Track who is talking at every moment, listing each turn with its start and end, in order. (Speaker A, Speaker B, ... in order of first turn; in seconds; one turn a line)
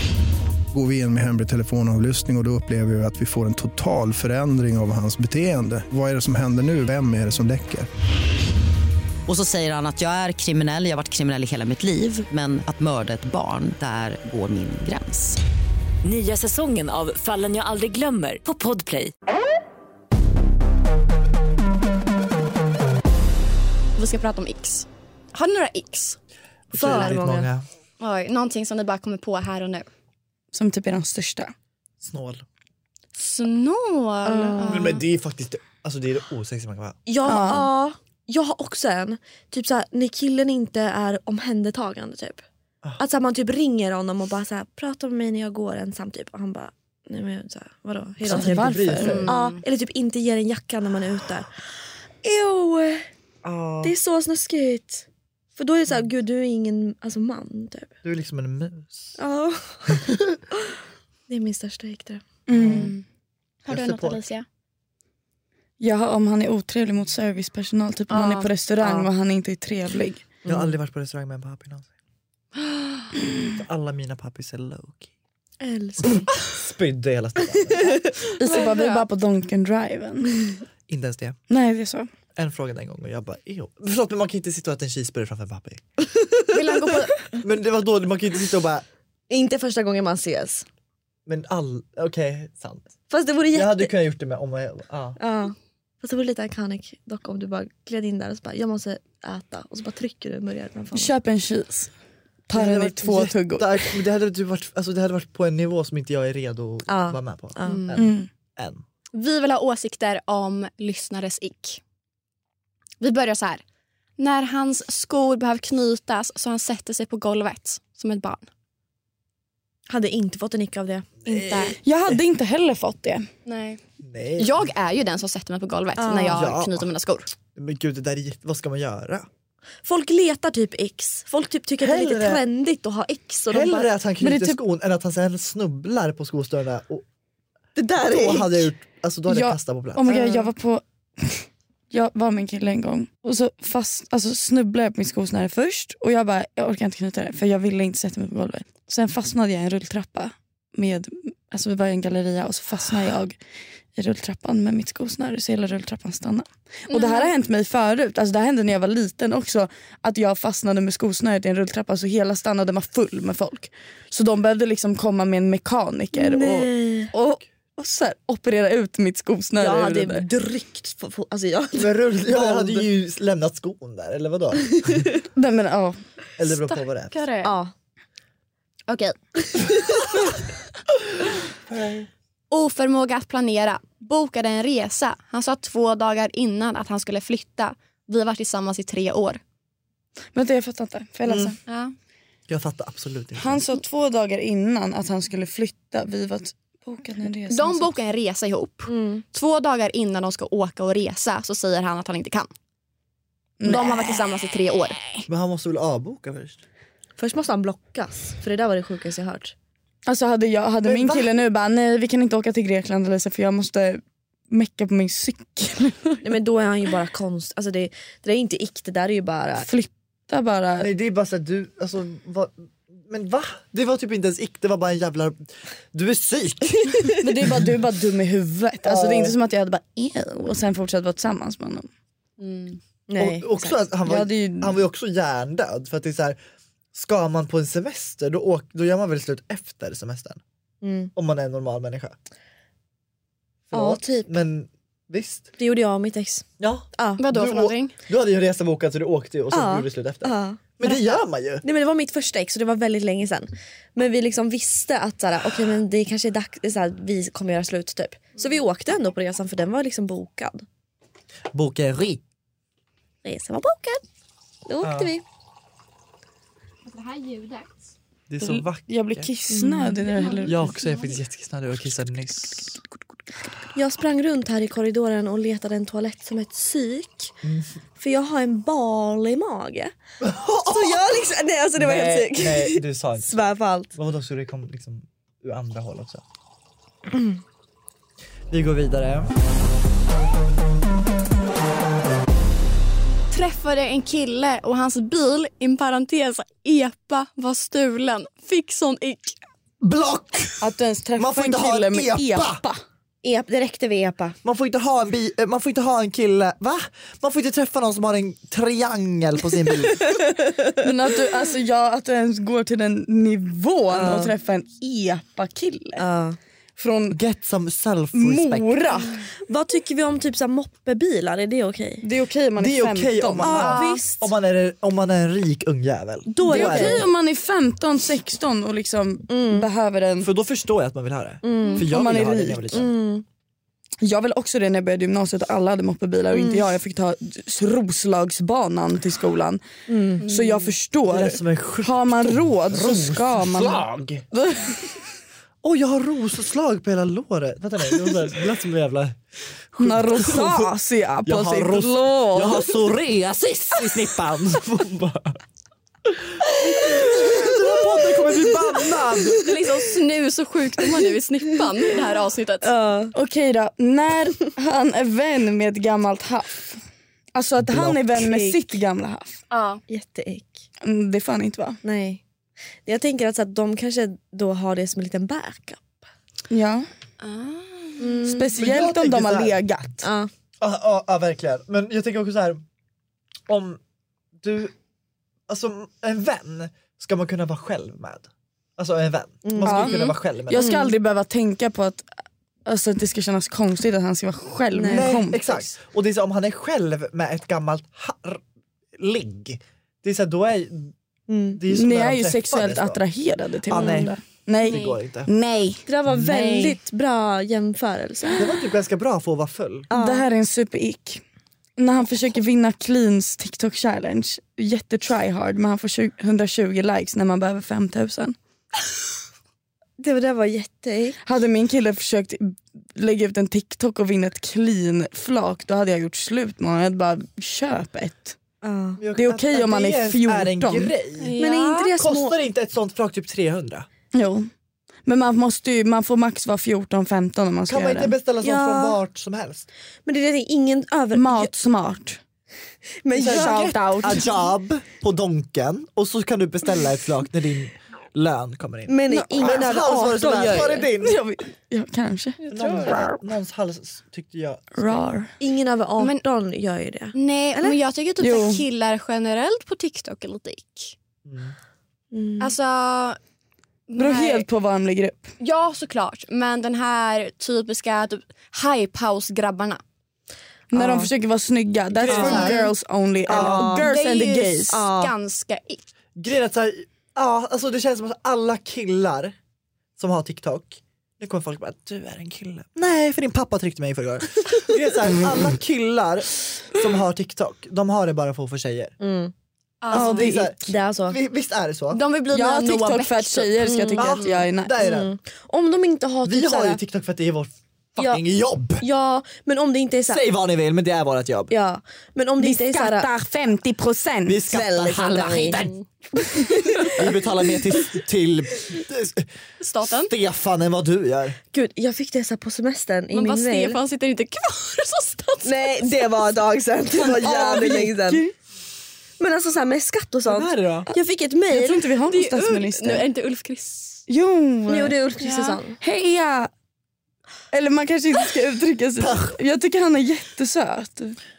Speaker A: 0.7-7.9
Speaker B: 9.3-15.4
Speaker C: 16.0-19.1
Speaker D: 24.0-26.2
Speaker E: 26.7-27.5
Speaker F: 26.7-27.7
Speaker D: 26.9-27.1
Speaker D: 28.0-29.9
Speaker G: 30.5-31.5
Speaker F: 32.0-32.5
Speaker D: 33.1-35.0
Speaker E: 34.2-35.0
Speaker F: 34.6-37.0
Speaker E: 37.1-42.5
Speaker G: 37.3-37.7
Speaker E: 43.0-51.5
Speaker F: 48.2-49.4
Speaker G: 48.3-49.2
Speaker D: 49.0-49.6
Speaker E: 52.2-53.1
Speaker F: 53.4-53.9
Speaker E: 53.8-57.9
Speaker F: 58.0-59.2
Speaker E: 59.2-60.7
Speaker E: 61.3-62.2
Speaker G: 62.5-62.9
Speaker F: 62.5-62.9
Speaker D: 62.7-63.0
Speaker D: 63.7-64.5
Speaker F: 63.7-64.2
Speaker G: 65.8-70.2
Speaker D: 68.1-68.5
Speaker E: 68.8-69.1
Speaker E: 70.4-70.8
Speaker F: 70.5-71.9
Speaker F: 73.4-75.1
Speaker E: 75.6-76.3
Speaker F: 76.0-78.2
Speaker E: 77.6-78.7
Speaker G: 78.4-80.6
Speaker D: 78.5-79.0
Speaker F: 80.9-81.4
Speaker G: 81.5-82.1
Speaker F: 82.4-85.8
Speaker E: 86.1-86.9
Speaker D: 86.5-87.4
Speaker F: 87.4-88.8
Speaker E: 89.3-90.7
Speaker F: 91.3-92.9
Speaker E: 93.1-93.9
Speaker F: 93.5-95.2
Speaker E: 95.2-101.1
Speaker G: 100.9-101.9
Speaker G: 102.5-103.8
Speaker F: 102.5-108.8
Speaker E: 106.9-107.8
Speaker D: 107.7-108.0
Speaker G: 108.0-108.3
Speaker D: 109.1-111.8
Speaker D: 113.0-113.6
Speaker D: 114.2-118.5
Speaker E: 119.9-121.7
Speaker F: 121.3-121.7
Speaker D: 121.3-121.7
Speaker G: 121.8-123.3
Speaker D: 123.5-123.8
Speaker F: 124.0-124.7
Speaker D: 124.4-127.3
Speaker E: 126.0-126.5
Speaker F: 126.3-126.9
Speaker F: 127.5-129.3
Speaker E: 129.8-133.9
Speaker F: 131.8-132.4
Speaker F: 133.5-137.1
Speaker G: 134.2-134.6
Speaker E: 137.8-138.7
Speaker F: 138.0-140.2
Speaker G: 139.3-153.4
Speaker E: 140.1-140.5
Speaker G: 153.9-170.3
Speaker D: 156.9-157.3
Speaker E: 166.2-167.1
Speaker E: 169.6-172.9
Speaker F: 171.8-175.2
Speaker E: 174.6-175.1
Speaker G: 175.3-176.0
Speaker F: 176.4-177.2
Speaker D: 176.5-177.5
Speaker E: 177.4-177.7
Speaker D: 178.9-180.0
Speaker E: 179.6-180.1
Speaker F: 181.7-182.1
Speaker D: 182.5-189.4
Speaker G: 190.3-191.6
Speaker D: 191.7-191.9
Speaker F: 192.5-193.6
Speaker G: 193.4-197.9
Speaker D: 197.5-202.5
Speaker E: 198.9-199.2
Speaker G: 203.6-204.2
Speaker D: 203.6-205.1
Speaker F: 205.3-206.6
Speaker E: 207.2-209.5
Speaker G: 210.1-216.2
Speaker F: 210.8-211.3
Speaker E: 216.2-219.7
Speaker G: 219.6-220.9
Speaker F: 220.8-225.4
Speaker F: 225.9-227.7
Speaker G: 227.2-231.9
Speaker F: 228.8-229.4
Speaker D: 232.4-232.8
Speaker E: 233.1-233.7
Speaker F: 233.2-236.4
Speaker G: 234.1-234.8
Speaker F: 236.9-240.4
Speaker E: 240.8-241.1
Speaker F: 241.2-242.2
Speaker F: 243.7-245.5
Speaker E: 243.7-244.3
Speaker E: 245.6-247.2
Speaker F: 246.6-251.6
Speaker D: 247.2-248.0
Speaker E: 249.5-250.6
Speaker D: 250.8-251.2
Speaker E: 251.6-260.7
Speaker F: 261.5-262.2
Speaker E: 263.2-264.0
Speaker E: 264.7-265.2
Speaker F: 264.8-265.1
Speaker D: 266.9-267.8
Speaker F: 268.3-269.3
Speaker G: 268.4-270.6
Speaker E: 269.5-270.0
Speaker D: 270.1-271.2
Speaker F: 270.5-272.8
Speaker E: 273.8-277.4
Speaker F: 277.4-277.7
Speaker E: 278.0-279.9
Speaker F: 280.2-281.2
Speaker E: 280.7-283.9
Speaker F: 281.8-283.4
Speaker F: 283.9-286.2
Speaker E: 287.1-287.4
Speaker F: 288.5-289.3
Speaker D: 293.3-299.4
Speaker F: 299.8-302.6
Speaker G: 300.6-302.8
Speaker E: 303.2-304.4
Speaker F: 304.4-310.1
Speaker E: 309.9-310.9
Speaker G: 310.8-316.0
Speaker E: 313.9-314.3
Speaker E: 316.0-316.4
Speaker G: 316.8-317.2
Speaker F: 317.1-318.7
Speaker G: 318.1-319.1
Speaker E: 319.5-322.0
Speaker G: 322.0-323.7
Speaker F: 322.6-327.1
Speaker E: 323.4-324.3
Speaker D: 323.6-324.1
Speaker E: 326.3-327.1
Speaker G: 326.5-330.3
Speaker E: 329.3-329.6
Speaker F: 330.2-332.9
Speaker E: 331.4-331.9
Speaker G: 331.8-332.7
Speaker E: 332.7-333.2
Speaker G: 334.0-339.6
Speaker E: 336.3-336.7
Speaker E: 339.9-340.2
Speaker G: 340.2-344.8
Speaker D: 340.2-340.7
Speaker F: 341.1-344.2
Speaker F: 345.6-349.2
Speaker F: 349.7-350.6
Speaker G: 349.8-352.8
Speaker E: 350.2-350.7
Speaker F: 351.2-355.4
Speaker F: 356.1-359.5
Speaker E: 356.8-359.8
Speaker D: 359.4-362.7
Speaker E: 361.6-362.0
Speaker E: 362.6-363.1
Speaker G: 363.1-366.8
Speaker G: 367.4-369.4
Speaker F: 367.6-368.0
Speaker E: 368.1-368.7
Speaker D: 369.5-369.8
Speaker E: 369.9-370.6
Speaker G: 370.8-371.8
Speaker E: 371.8-372.2
Speaker E: 372.9-376.0
Speaker G: 376.5-376.9
Speaker D: 377.2-378.1
Speaker E: 378.0-378.6
Speaker G: 378.2-380.1
Speaker F: 378.6-379.6
Speaker E: 380.0-380.3
Speaker F: 380.6-382.6
Speaker F: 383.5-383.8
Speaker F: 384.4-384.8
Speaker F: 385.5-390.8
Speaker E: 389.4-390.0
Speaker G: 389.6-395.7
Speaker D: 389.9-390.1
Speaker E: 390.5-390.9
Speaker E: 394.7-395.2
Speaker F: 394.9-398.4
Speaker F: 399.0-400.9
Speaker E: 401.3-401.6
Speaker F: 401.5-403.0
Speaker G: 401.7-405.8
Speaker F: 403.7-405.3
Speaker E: 403.7-404.2
Speaker D: 404.7-405.0
Speaker E: 405.9-408.6
Speaker F: 406.1-406.7
Speaker F: 408.4-409.9
Speaker E: 409.9-410.2
Speaker G: 409.9-411.2
Speaker G: 411.8-418.4
Speaker E: 420.0-421.2
Speaker G: 421.2-428.4
Speaker E: 428.6-429.0
Speaker F: 429.0-431.4
Speaker G: 429.2-430.9
Speaker D: 431.2-431.9
Speaker E: 431.4-432.4
Speaker F: 431.9-433.9
Speaker G: 434.1-434.5
Speaker G: 435.1-438.1
Speaker F: 437.7-439.7
Speaker E: 438.4-439.0
Speaker E: 440.1-441.5
Speaker G: 441.1-442.2
Speaker E: 443.0-444.2
Speaker F: 443.1-451.2
Speaker G: 443.2-444.3
Speaker E: 448.9-450.9
Speaker G: 449.1-453.2
Speaker F: 452.5-455.0
Speaker G: 454.7-455.3
Speaker E: 455.4-457.8
Speaker D: 456.0-456.2
Speaker D: 457.1-461.0
Speaker G: 458.2-458.6
Speaker F: 461.2-461.6
Speaker E: 462.1-462.6
Speaker D: 462.4-463.2
Speaker D: 463.9-464.5
Speaker G: 464.0-465.3
Speaker D: 465.4-469.8
Speaker G: 470.7-474.9
Speaker E: 470.7-471.1
Speaker F: 471.9-472.7
Speaker E: 472.1-472.5
Speaker D: 472.1-472.5
Speaker E: 473.3-473.9
Speaker F: 473.3-473.7
Speaker D: 473.6-475.9
Speaker E: 474.7-475.1
Speaker F: 476.2-479.4
Speaker F: 480.0-488.9
Speaker E: 489.0-489.3
Speaker D: 489.8-490.4
Speaker E: 489.9-491.2
Speaker G: 489.9-490.4
Speaker F: 489.9-492.0
Speaker D: 491.9-493.6
Speaker G: 492.3-494.7
Speaker E: 493.6-494.2
Speaker F: 494.0-495.1
Speaker E: 494.8-496.8
Speaker F: 496.2-498.9
Speaker E: 498.0-498.2
Speaker E: 498.8-500.3
Speaker F: 500.1-501.5
Speaker E: 501.5-503.1
Speaker G: 502.4-504.4
Speaker F: 504.3-505.7
Speaker E: 504.5-507.2
Speaker D: 505.5-505.8
Speaker F: 507.0-509.3
Speaker D: 509.6-510.1
Speaker F: 510.1-511.4
Speaker E: 511.5-513.8
Speaker D: 513.1-516.1
Speaker E: 515.4-518.2
Speaker F: 517.0-517.9
Speaker G: 517.3-518.3
Speaker E: 519.2-521.9
Speaker F: 520.3-520.9
Speaker G: 521.5-523.1
Speaker D: 522.1-524.0
Speaker G: 524.1-525.0
Speaker E: 524.7-525.8
Speaker D: 525.2-525.6
Speaker G: 525.8-526.5
Speaker G: 527.5-531.2
Speaker F: 529.0-529.4